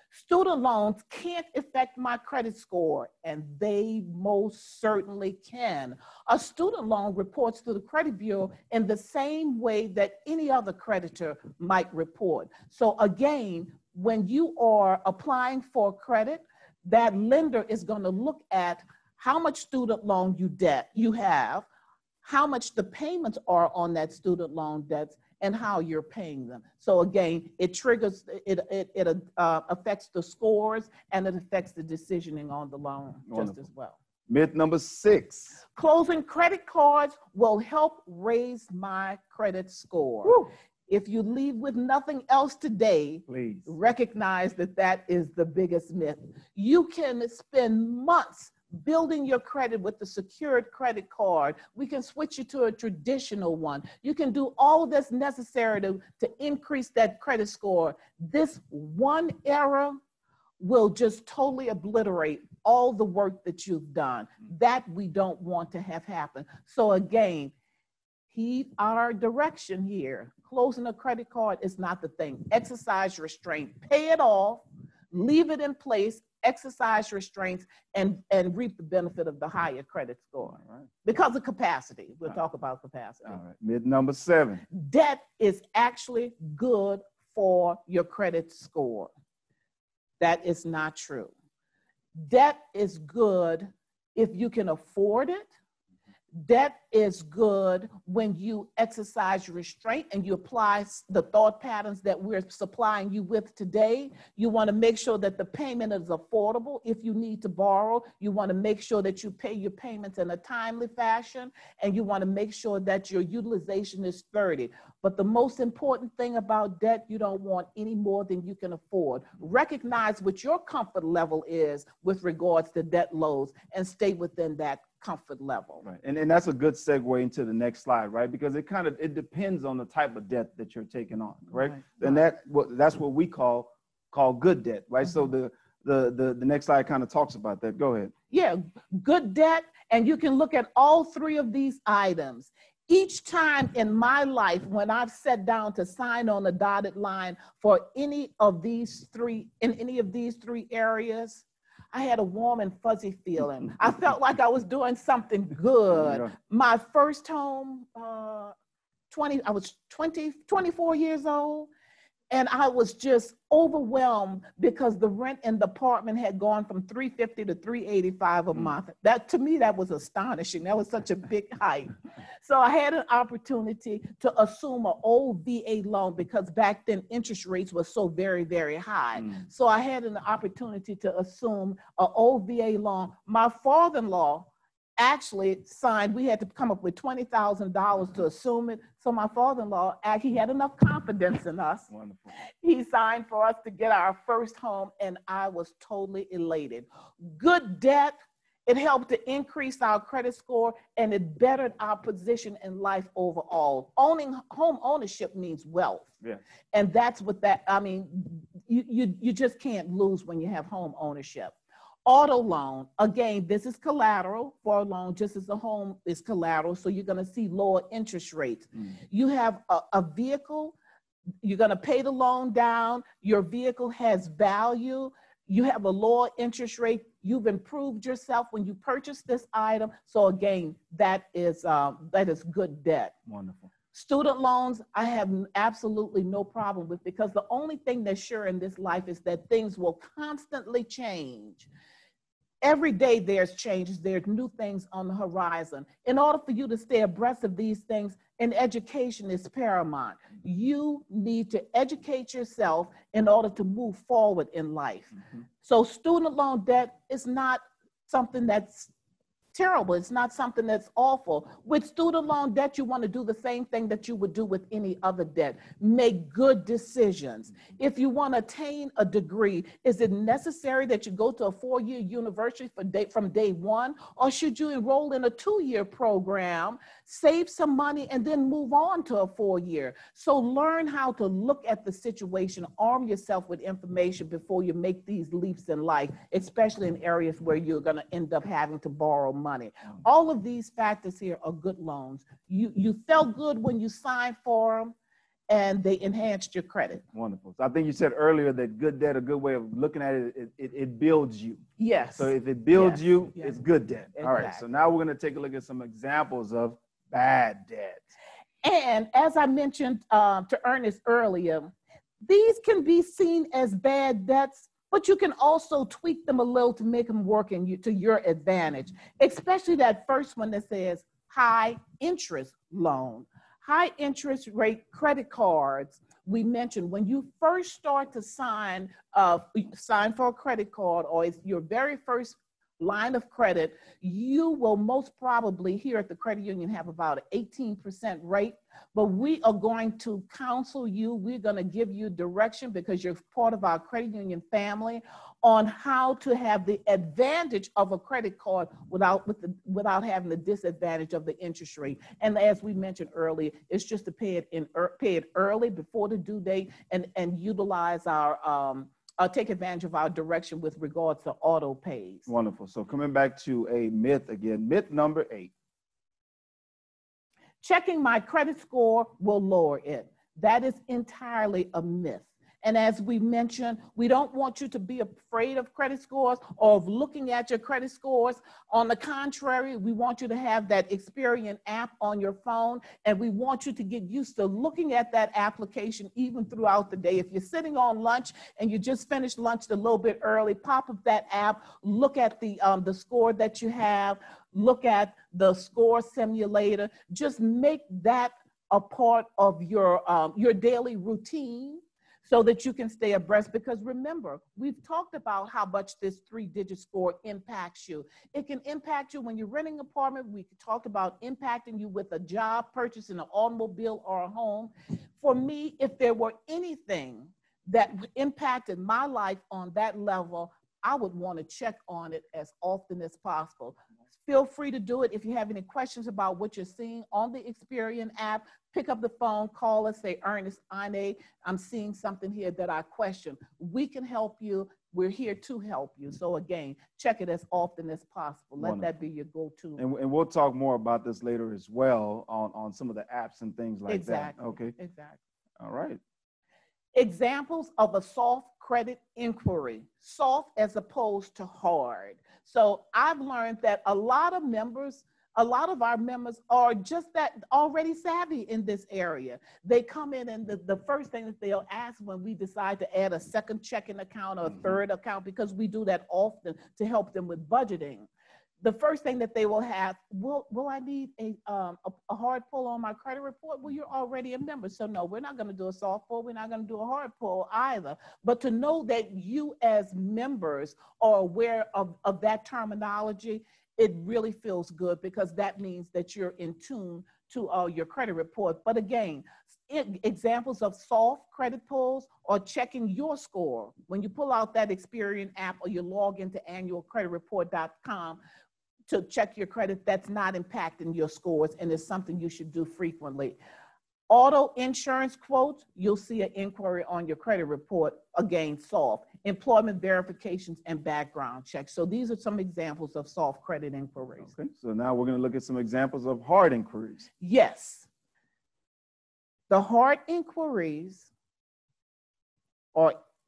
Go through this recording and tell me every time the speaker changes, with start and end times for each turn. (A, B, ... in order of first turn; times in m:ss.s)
0:00.1-0:21.7 A
0:22.2-0:34.0 A
0:33.3-0:33.6 B
0:34.3-0:35.6 B
0:35.7-0:40.3 A
0:40.9-1:00.0 A
0:43.3-0:43.7 B
1:00.6-1:07.5 A
1:08.3-1:23.4 A
1:20.5-1:20.9 B
1:23.3-1:24.6 B
1:24.7-1:29.1 A
1:30.2-1:31.3 A
1:32.2-1:35.5 A
1:36.4-2:05.8 A
2:05.8-2:18.1 B
2:11.7-2:12.2 A
2:18.3-2:38.6 A
2:35.9-2:36.3 B
2:39.1-2:41.7 A
2:42.3-3:26.1 A
3:11.9-3:12.3 B
3:26.7-3:40.8 A
3:41.4-3:53.1 A
3:53.3-3:53.7 B
3:53.9-4:01.7 A
4:02.6-4:18.9 A
4:19.5-4:55.0 A
4:55.5-4:57.0 A
4:57.1-5:01.6 B
5:01.8-5:03.6 A
5:02.2-5:08.0 B
5:04.2-5:04.6 A
5:08.6-6:02.3 A
6:02.3-6:05.5 B
6:07.6-7:19.8 A
7:18.6-7:18.9 B
7:19.8-7:24.7 B
7:23.9-7:25.2 A
7:25.6-7:26.0 B
7:27.0-7:48.1 A
7:48.6-8:18.2 A
8:18.9-8:23.4 A
8:24.1-8:34.3 A
8:34.2-8:37.1 B
8:37.2-8:37.9 A
8:39.5-8:41.1 A